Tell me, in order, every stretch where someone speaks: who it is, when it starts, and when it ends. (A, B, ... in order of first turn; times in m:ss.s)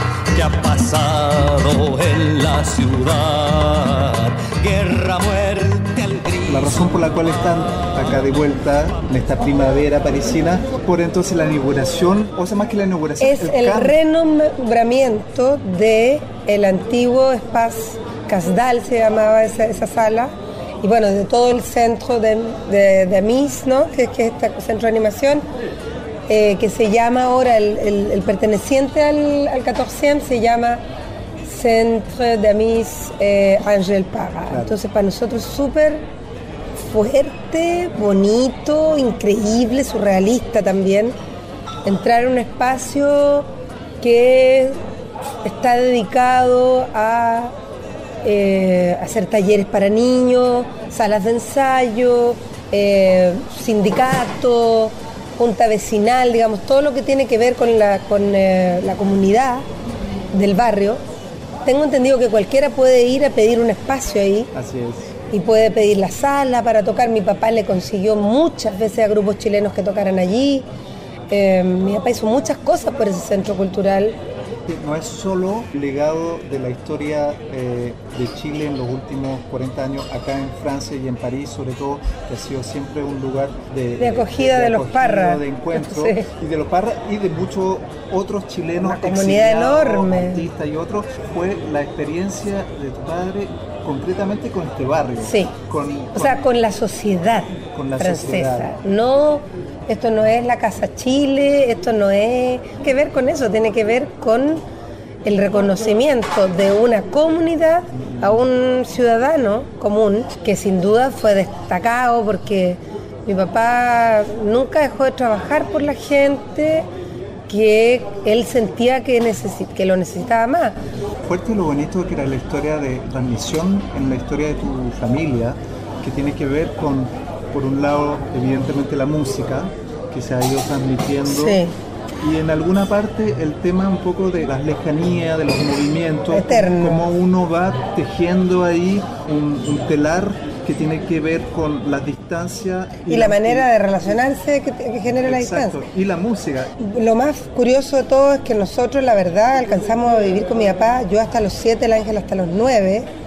0:00.3-0:06.8 A
0:06.5-0:14.0 B
0:13.2-0:25.4 C
0:26.3-0:30.8 C
0:31.4-0:36.0 C
0:34.5-0:34.8 B
0:36.8-0:41.2 C
0:41.8-0:43.5 C
0:44.0-0:44.8 C
0:45.4-0:47.5 C
0:48.2-0:59.6 C
1:00.3-1:01.0 C
1:01.6-1:04.5 C
1:04.5-1:05.1 B
1:05.3-1:10.6 C
1:11.3-1:14.2 C
1:14.7-1:36.4 B
1:24.0-1:26.3 C
1:28.8-1:30.4 C
1:35.2-1:35.5 C
1:36.1-1:44.6 C
1:37.7-1:38.7 B
1:45.2-1:56.9 C
1:57.5-2:00.8 C
2:01.2-2:11.6 B
2:11.3-2:11.7 C
2:12.2-2:23.7 B
2:16.3-2:17.0 C
2:23.1-2:25.8 C
2:25.2-2:26.8 B
2:26.8-2:33.1 C